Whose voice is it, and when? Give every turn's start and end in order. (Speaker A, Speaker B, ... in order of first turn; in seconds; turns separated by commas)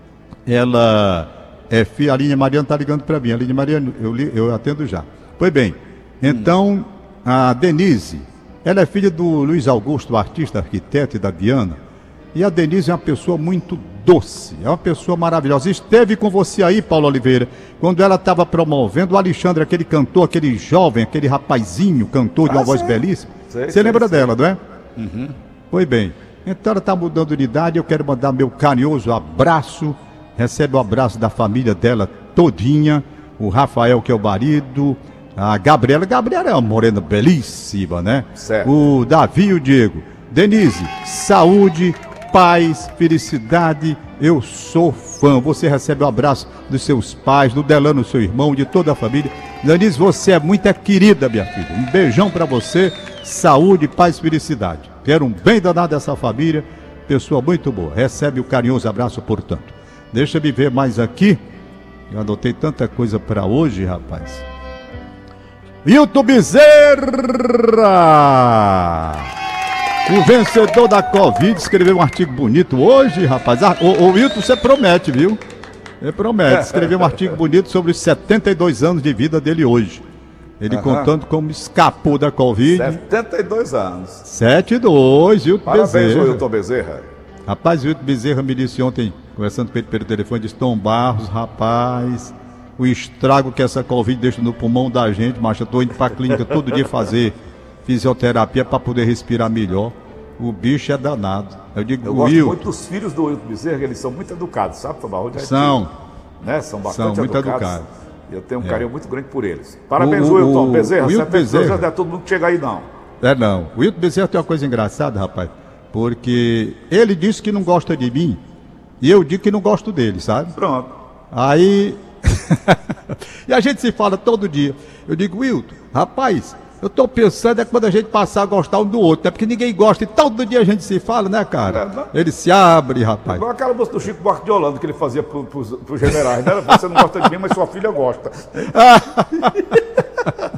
Speaker A: 0.5-11.8, Speaker B: 6.2-6.5, Speaker A: 12.3-24.6, Speaker B: 22.4-24.3, Speaker B: 25.0-25.3, Speaker A: 25.7-61.4, Speaker B: 38.4-38.7, Speaker A: 62.1-64.4, Speaker A: 65.8-69.3, Speaker A: 70.0-75.4, Speaker A: 76.0-80.0, Speaker B: 76.5-77.1, Speaker A: 80.6-83.0, Speaker B: 80.7-81.1, Speaker B: 82.7-84.2, Speaker A: 84.2-86.4, Speaker B: 85.7-87.1, Speaker A: 87.5-102.6, Speaker B: 102.0-105.8, Speaker A: 105.3-105.9, Speaker B: 106.4-107.8, Speaker A: 106.8-107.9, Speaker B: 108.3-112.9, Speaker A: 110.0-111.8, Speaker A: 113.2-118.4, Speaker A: 119.0-120.5, Speaker B: 120.5-120.9, Speaker A: 121.3-133.4, Speaker B: 131.7-132.1, Speaker B: 133.3-138.8, Speaker A: 138.7-140.3